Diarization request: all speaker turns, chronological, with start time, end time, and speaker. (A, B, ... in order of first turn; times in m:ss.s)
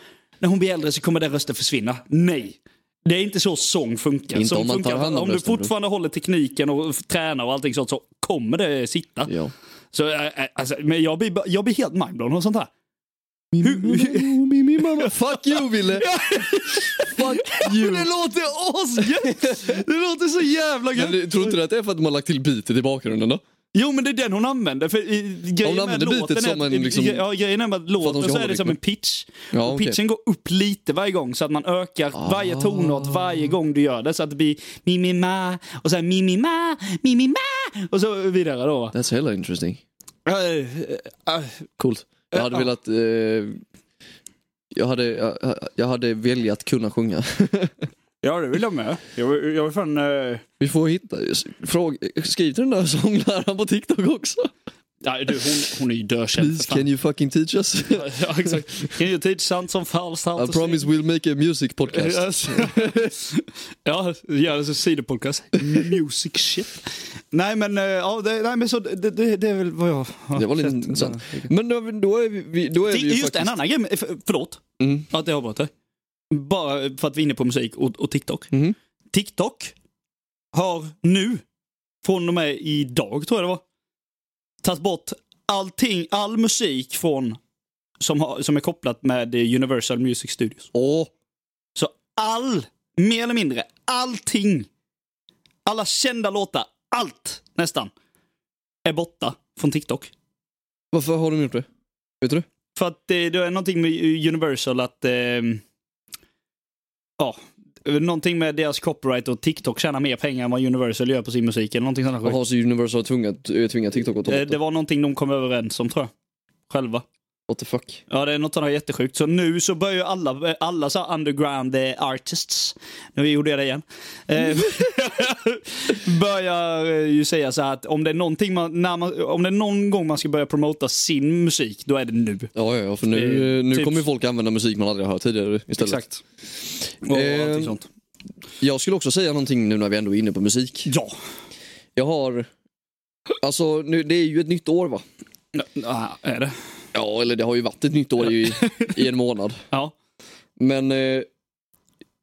0:00.4-0:09.3 A
0:04.3-0:05.7 B
0:09.3-0:09.5 B
0:09.9-0:12.7 A
0:13.5-0:18.1 B
0:13.6-0:21.6 A
0:19.0-0:19.8 B
0:21.0-0:23.4 B
0:23.7-0:39.0 A
0:25.6-0:27.2 B
0:28.0-0:28.8 B
0:29.5-0:30.0 B
0:32.2-0:33.5 B
0:38.9-0:39.8 B
0:40.3-0:41.6 A
0:41.8-0:43.6 B
0:42.3-0:42.7 A
0:44.7-0:47.8 B
0:48.2-0:50.4 A
0:50.6-0:54.5 B
0:55.0-0:56.9 A
0:56.4-0:58.6 B
0:57.9-1:00.8 A
1:00.4-1:03.1 B
1:01.9-1:11.5 A
1:10.4-1:13.6 B
1:12.9-1:15.7 A
1:14.8-1:15.1 B
1:16.3-1:18.5 A
1:19.1-1:19.7 A
1:20.5-1:21.4 A
1:22.0-1:23.6 A
1:24.6-1:27.4 A
1:28.0-1:30.7 A
1:30.7-1:31.1 B
1:31.8-1:34.7 A
1:35.7-1:37.9 A
1:38.8-1:40.1 A
1:40.9-1:41.7 B
1:42.2-1:42.5 B
1:42.8-1:45.6 A
1:47.2-1:52.4 A
1:52.2-1:54.6 B
1:54.2-1:56.1 A
1:56.7-1:57.0 A
1:57.5-1:58.0 B
1:58.1-2:12.5 A
2:12.6-2:16.0 B
2:13.1-2:14.0 A
2:15.8-2:16.2 A
2:17.0-2:17.9 A
2:17.0-2:17.8 B
2:18.6-2:20.9 B
2:20.9-2:21.1 A
2:22.0-2:22.5 B
2:23.4-2:25.0 B
2:25.5-2:26.6 A
2:26.9-2:29.6 B
2:28.3-2:29.0 A
2:30.6-2:31.3 B